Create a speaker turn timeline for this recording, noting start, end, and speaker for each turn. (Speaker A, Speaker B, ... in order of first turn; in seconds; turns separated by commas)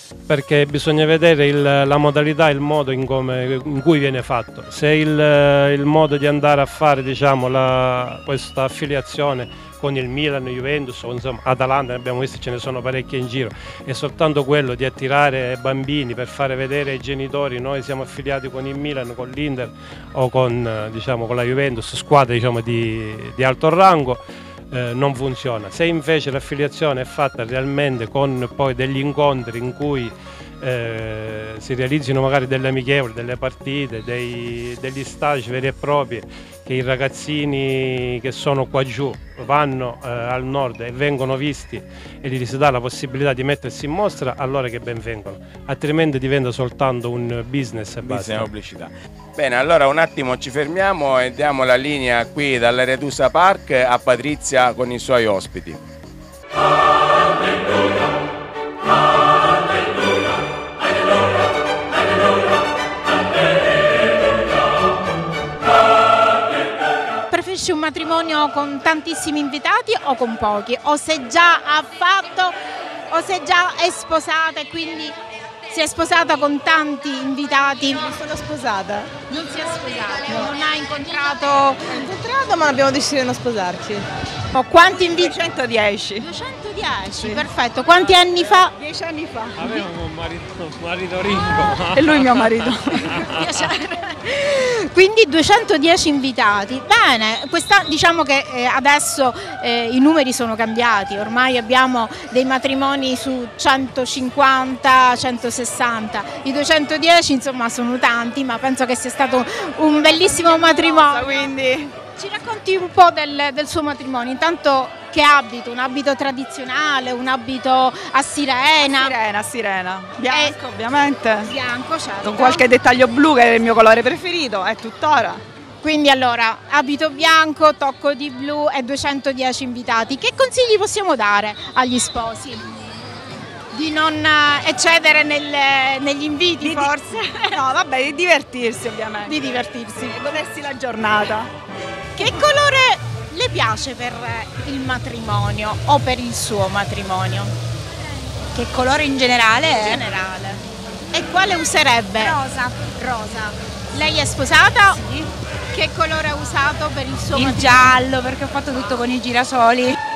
Speaker A: 0.3-48.5, Speaker B: 48.0-55.8, Speaker C: 67.3-72.5, Speaker C: 73.1-75.2, Speaker C: 75.7-78.1, Speaker D: 78.2-79.1, Speaker C: 79.2-82.0, Speaker D: 82.5-84.0, Speaker C: 84.5-85.4, Speaker D: 85.2-86.2, Speaker C: 86.2-88.7, Speaker D: 88.8-89.6, Speaker A: 89.6-93.4, Speaker D: 92.0-92.8, Speaker C: 93.3-111.5, Speaker D: 110.5-111.9, Speaker C: 112.2-119.2, Speaker D: 119.1-121.5, Speaker C: 120.3-120.6, Speaker C: 121.5-122.7, Speaker D: 122.3-125.4, Speaker C: 125.8-132.7, Speaker C: 133.7-137.6, Speaker D: 137.7-139.3, Speaker C: 139.3-140.2, Speaker D: 140.1-141.5, Speaker C: 142.2-147.5, Speaker E: 148.6-150.0, Speaker C: 149.6-150.6, Speaker C: 151.1-155.0, Speaker E: 152.3-152.8, Speaker E: 155.0-155.3, Speaker C: 155.7-158.0, Speaker E: 157.4-160.0